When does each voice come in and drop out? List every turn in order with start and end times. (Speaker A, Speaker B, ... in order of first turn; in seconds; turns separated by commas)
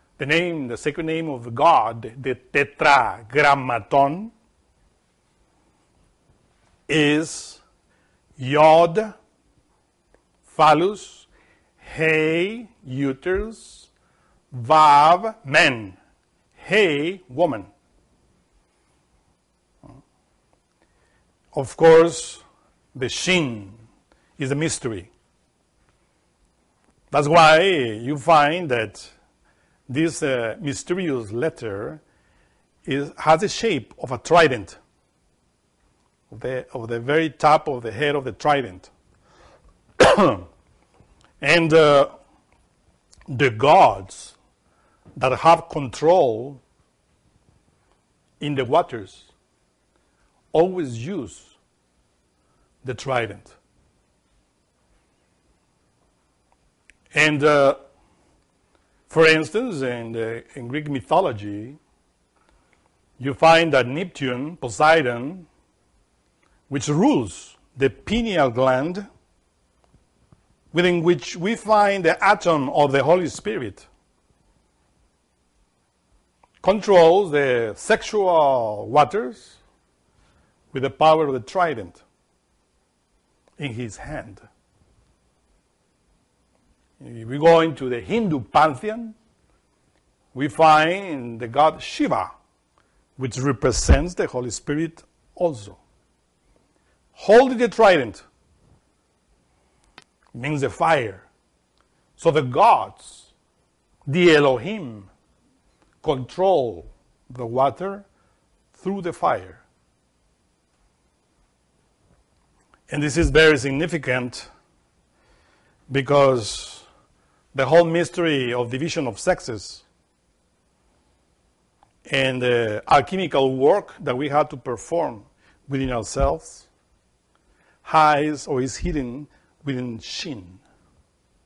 Speaker A: 0.2-4.3, Speaker A: 6.9-7.6, Speaker A: 8.4-9.2, Speaker A: 10.4-11.3, Speaker A: 11.8-13.9, Speaker A: 14.5-16.0, Speaker A: 16.6-17.7, Speaker A: 21.5-22.4, Speaker A: 22.9-23.8, Speaker A: 24.4-25.1, Speaker A: 27.1-29.1, Speaker A: 29.9-32.0, Speaker A: 32.8-34.8, Speaker A: 36.3-38.9, Speaker A: 40.0-40.5, Speaker A: 41.4-42.1, Speaker A: 43.3-44.3, Speaker A: 45.1-46.6, Speaker A: 48.4-49.3, Speaker A: 50.5-51.5, Speaker A: 52.8-53.5, Speaker A: 57.1-57.8, Speaker A: 59.1-61.8, Speaker A: 63.2-65.5, Speaker A: 66.7-69.1, Speaker A: 70.7-73.9, Speaker A: 76.6-79.6, Speaker A: 80.7-82.0, Speaker A: 83.6-84.4, Speaker A: 87.0-89.2, Speaker A: 90.3-92.3, Speaker A: 93.2-95.8, Speaker A: 97.2-98.2, Speaker A: 100.3-101.2, Speaker A: 102.2-103.3, Speaker A: 104.1-105.1, Speaker A: 106.0-108.0, Speaker A: 108.7-109.6, Speaker A: 112.9-114.5, Speaker A: 115.9-116.8, Speaker A: 117.5-119.8, Speaker A: 122.0-126.7, Speaker A: 127.8-130.6